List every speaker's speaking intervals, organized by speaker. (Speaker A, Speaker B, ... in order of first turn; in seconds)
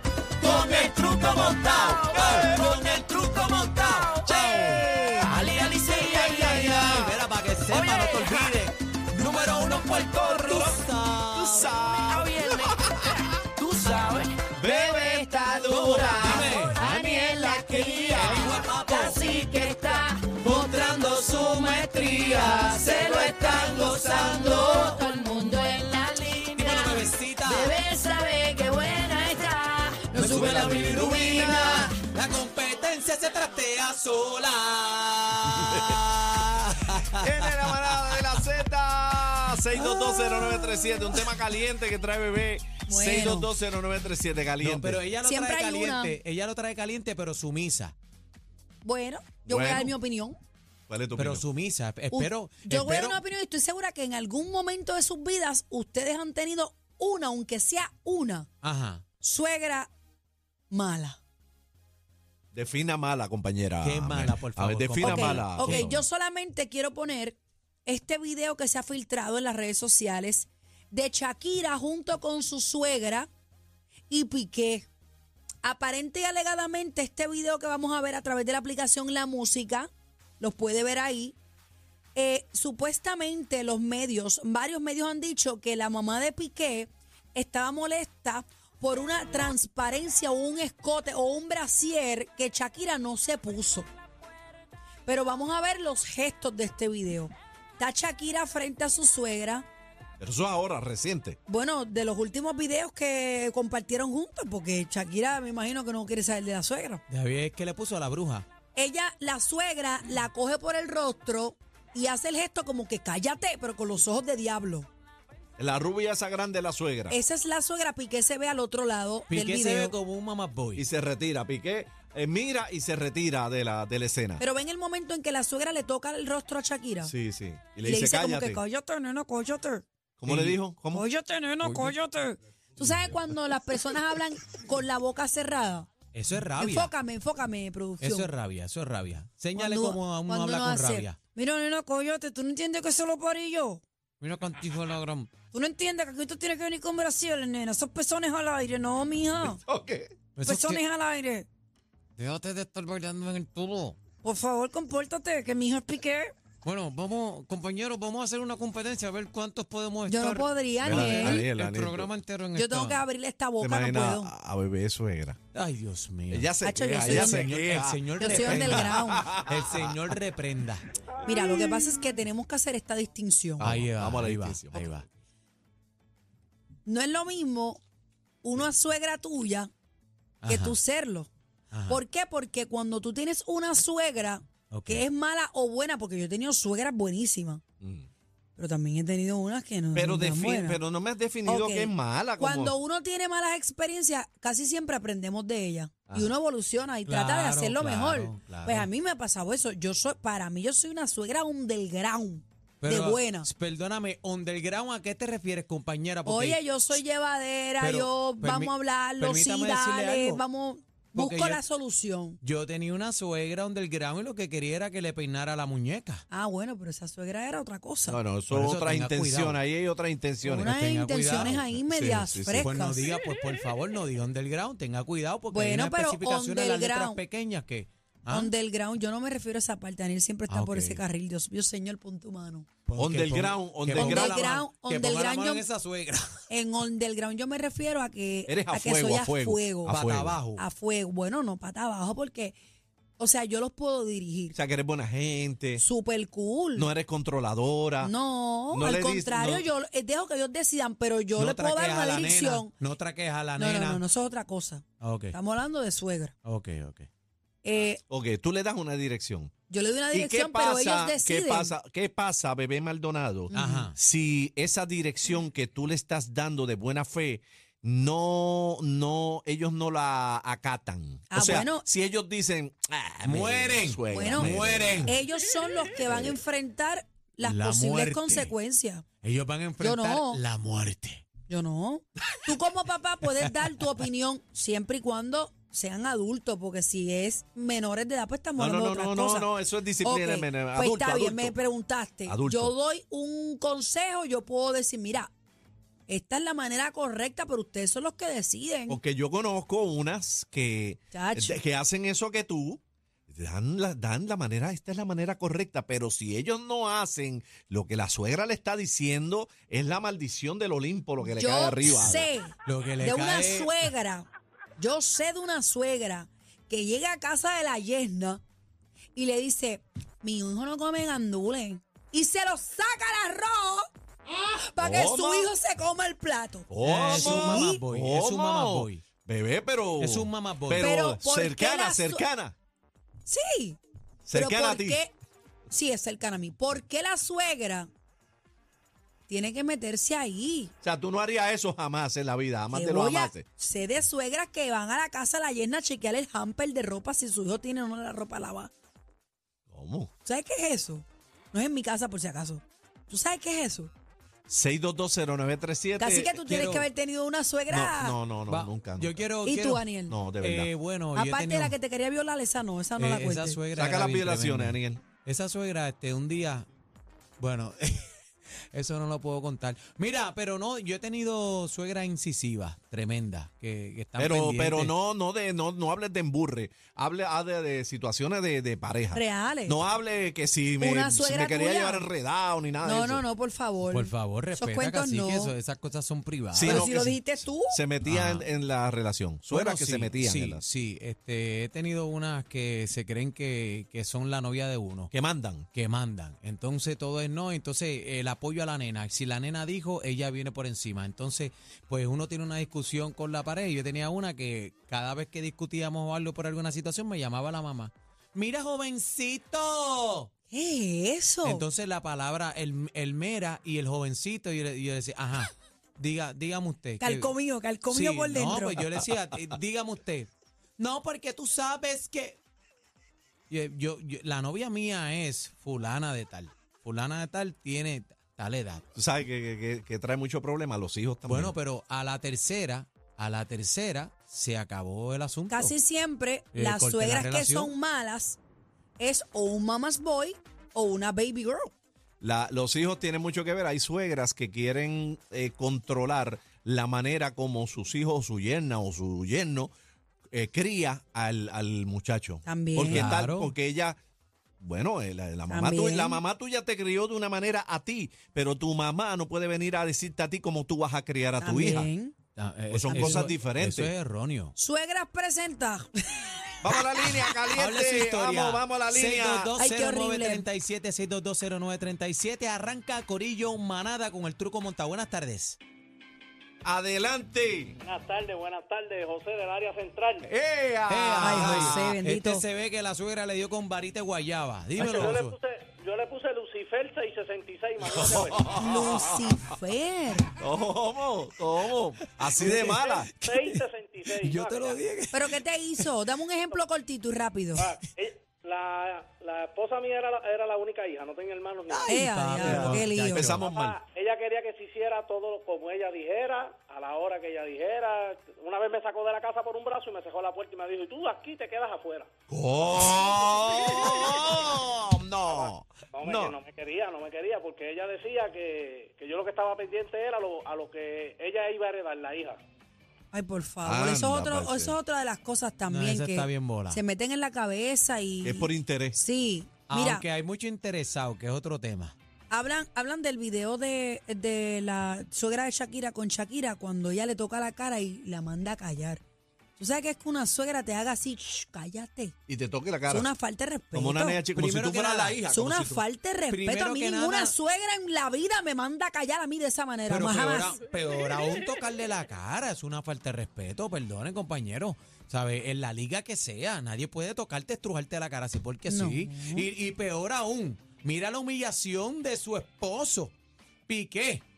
Speaker A: 0.4-3.0, 4.2-5.2, 5.8-7.2, 8.1-8.5, 9.9-13.1, 14.6-18.6, 30.3-31.9, 35.6-36.0, 37.2-45.0, 49.5-49.9, 50.9-51.5, 62.5-66.0, 100.2-101.4, 115.6-117.2, 120.8-124.4, 127.0-128.6, 130.2-131.0, 149.4-150.1, 160.8-162.1, 163.6-165.4, 166.3-170.0, 173.6-175.0, 187.8-188.1, 189.9-192.7, 218.1-220.7, 221.3-222.7, 233.0-234.4, 238.5-240.4, 244.5-245.8, 246.8-248.1, 248.7-249.7, 258.1-259.5, 260.1-275.2, 276.1-276.4, 288.6-291.6, 292.2-292.7, 298.9-312.3, 324.8-325.5, 326.7-332.5, 334.2-335.0, 340.8-343.4, 349.7-350.1, 354.5-356.4, 357.7-359.2, 360.1-360.7, 363.7-365.0, 374.2-383.2, 386.5-387.1, 387.7-390.6, 395.1-395.7, 428.9-431.5, 442.2-449.7, 450.3-454.0, 454.6-461.9, 462.7-463.9, 466.6-469.5, 476.6-477.8, 480.2-481.9, 487.9-489.2, 490.4-493.1, 502.4-503.8, 512.3-516.3, 523.6-524.8, 528.2-529.0, 542.3-543.1, 543.7-545.2
Speaker B: 0.4-11.7, 16.2-16.8, 18.2-19.2, 26.6-27.7, 30.1-37.2, 37.8-38.2, 44.6-47.9, 51.1-53.2, 58.6-59.0, 63.8-65.9, 107.1-108.5, 119.3-120.8, 130.2-130.6, 131.6-131.9, 136.1-136.9, 138.0-141.2, 144.2-145.3, 150.3-150.8, 152.2-153.9, 156.6-163.0, 165.5-170.9, 173.6-175.0, 180.4-180.8, 181.7-182.0, 184.7-185.1, 197.1-198.9, 202.8-207.0, 207.8-210.4, 211.2-211.6, 212.4-216.2, 218.5-219.6, 220.6-221.8, 222.6-228.5, 230.5-231.0, 232.8-236.2, 239.9-240.7, 251.3-254.0, 255.0-255.3, 256.4-257.1, 263.5-263.9, 273.2-275.1, 277.4-278.5, 279.2-281.2, 312.6-313.9, 326.8-329.0, 330.0-330.9, 356.4-356.9, 358.5-359.8, 360.4-361.7, 363.0-366.7, 367.4-368.1, 368.7-374.9, 383.9-387.1, 388.1-388.4, 389.5-395.1, 395.7-410.3, 411.4-417.3, 417.9-422.4, 423.5-428.8, 431.3-435.7, 436.5-437.7, 452.9-453.5, 462.4-464.5, 467.6-475.6, 480.9-485.3, 492.3-495.9, 501.7-503.5, 525.7-526.8, 529.7-531.9, 544.4-547.3, 549.9-563.1, 563.7-564.2
Speaker C: 0.5-4.4, 5.8-6.8, 7.9-8.3, 12.1-12.8, 13.6-16.4, 17.0-30.3
Speaker D: 4.6-5.3, 16.4-18.2, 19.0-26.8, 27.5-29.6, 30.1-31.9, 39.7-41.0, 42.9-43.5, 45.2-46.1, 48.8-50.4, 52.1-58.5, 59.2-59.9, 60.7-61.2, 65.0-73.3, 74.1-74.9, 75.6-81.4, 82.1-93.9, 95.0-99.6, 101.5-107.0, 108.7-114.9, 117.1-119.9, 124.4-127.1, 127.8-129.8, 130.9-135.9, 136.6-138.3, 139.5-143.8, 145.5-149.6, 150.4-151.5, 154.2-156.3, 160.1-161.4, 162.5-164.3, 166.6-167.5, 168.2-169.3, 171.2-173.7, 176.8-177.8, 178.4-179.7, 180.4-181.3, 181.9-187.6, 188.6-190.8, 191.4-203.5, 206.2-212.4, 216.3-218.2, 220.4-223.1, 225.5-227.2, 228.3-232.7, 233.9-235.6, 236.5-239.9, 240.6-242.6, 243.2-244.5, 245.8-246.9, 248.0-252.7, 253.6-256.3, 257.6-258.0, 259.7-261.7, 263.5-263.9, 271.3-271.8, 274.1-279.0, 279.8-280.4, 281.5-295.3, 296.1-299.0, 301.1-301.6, 311.2-314.2, 314.8-318.4, 319.1-327.8, 330.8-332.2, 333.2-333.8, 334.3-335.1, 335.7-337.9, 339.3-340.7, 342.7-348.7, 350.2-353.9, 356.0-358.2, 359.4-360.1, 361.1-363.6, 379.1-379.8, 380.8-382.1, 382.8-385.5, 386.6-387.8, 410.5-411.6, 417.0-418.8, 435.5-438.4, 439.0-441.7, 452.4-453.1, 455.5-456.2, 461.4-462.1, 462.9-463.2, 464.6-467.2, 469.6-470.4, 481.2-482.4, 488.5-490.3, 495.1-497.7, 501.9-503.4, 523.1-530.0, 532.3-539.0, 539.6-542.1, 542.9-544.2, 545.3-550.6, 558.7-559.5
Speaker E: 477.8-480.3, 484.8-488.6, 492.9-494.8, 497.6-502.8, 503.4-512.1, 513.3-514.6, 515.3-522.4